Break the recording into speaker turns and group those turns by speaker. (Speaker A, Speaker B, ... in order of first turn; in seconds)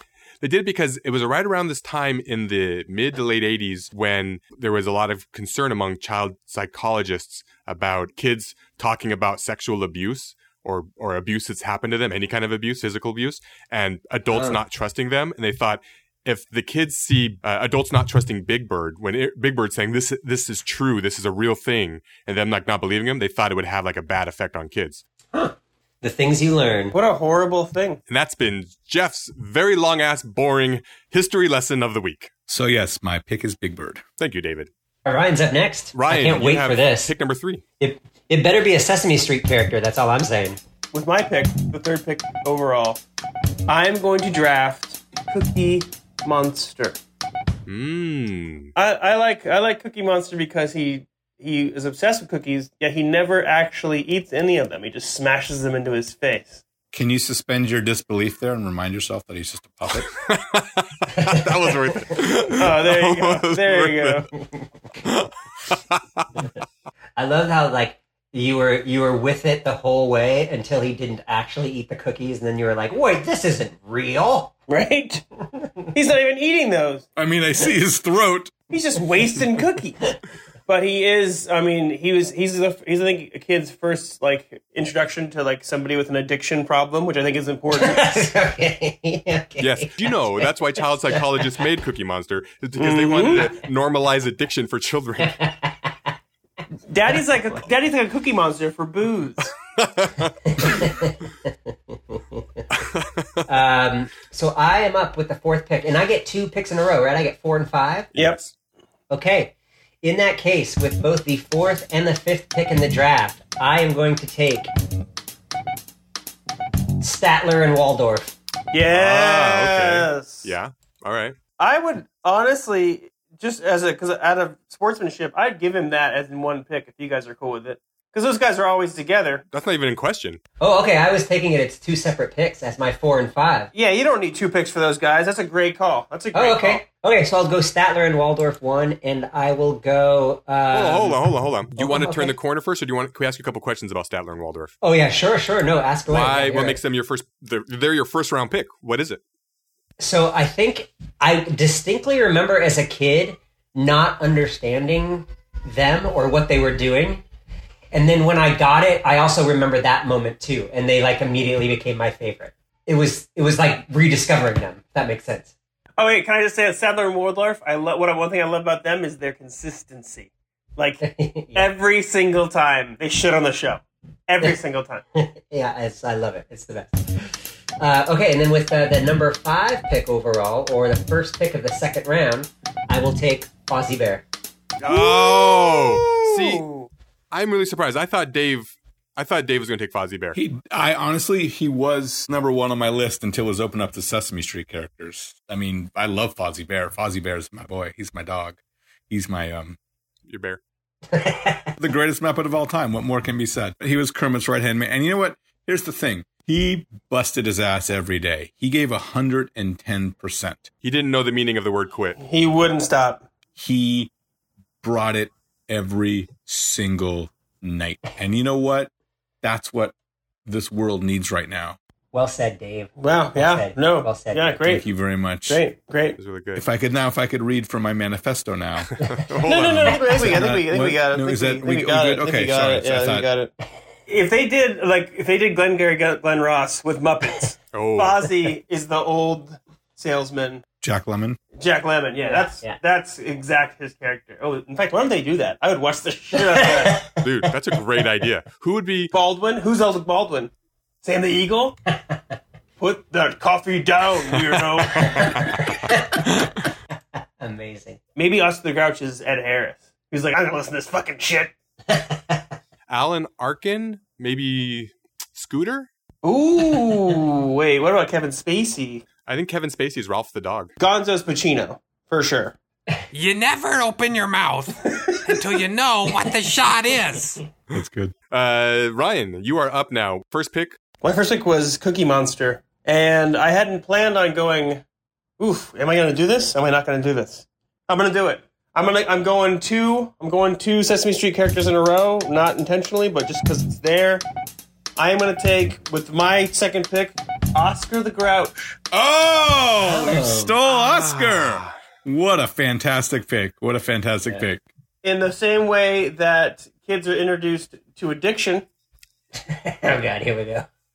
Speaker A: 0.4-25.0, 28.1-32.3, 34.2-34.7, 35.9-37.6, 47.6-48.7, 60.2-64.3, 65.0-66.3, 89.6-95.4, 99.8-100.3, 102.7-103.5, 108.1-108.5, 118.9-121.4, 129.5-130.4, 140.7-144.7, 146.1-149.2, 184.8-186.6, 187.3-190.4, 200.3-200.6, 210.8-212.2, 226.2-226.6, 229.0-230.2, 237.7-238.2, 247.2-249.1, 255.0-255.5, 262.9-265.9, 269.2-270.7, 278.3-280.8, 300.7-301.7
Speaker B: 14.3-14.6, 25.3-26.9, 35.0-37.1, 37.8-40.6, 61.1-61.4, 67.2-74.5, 87.7-90.5, 95.2-95.9, 100.5-101.5, 102.1-102.6, 103.5-108.1, 109.1-114.7, 117.0-118.3, 130.6-133.7, 136.3-141.2, 141.8-142.3, 144.8-146.8, 150.0-157.2, 157.9-165.5, 171.0-171.7, 175.1-184.2, 201.1-201.7, 222.1-224.6, 242.2-242.8, 246.3-247.2, 254.9-256.5, 257.4-258.0, 261.9-262.4, 299.8-300.6, 309.4-310.7
Speaker C: 26.9-28.0, 40.9-43.0, 43.7-47.0, 48.8-56.6, 62.5-64.3, 74.7-75.2, 75.9-77.1, 78.7-80.0, 80.7-88.2, 92.8-93.5, 96.9-99.5, 118.7-120.5, 121.6-129.4, 133.7-136.8, 166.0-171.0, 171.5-175.0, 184.8-186.9, 212.2-213.2, 223.0-224.8, 225.5-226.2, 229.4-233.5, 234.1-240.6, 241.6-247.1, 249.1-250.5, 251.0-251.8, 252.8-255.4, 258.1-261.5, 266.2-269.0, 270.8-272.5, 281.0-284.8, 285.4-294.2, 294.9-298.8, 305.0-308.6
Speaker D: 32.5-34.0, 56.9-60.1, 77.2-78.5, 190.3-198.6, 199.1-199.8, 201.8-210.7, 213.6-214.1, 214.8-218.9, 219.4-219.9, 220.4-221.8, 224.6-225.6, 226.5-228.9, 230.0-233.3, 240.8-241.4, 277.7-278.1, 298.9-304.6
Speaker E: 273.1-277.4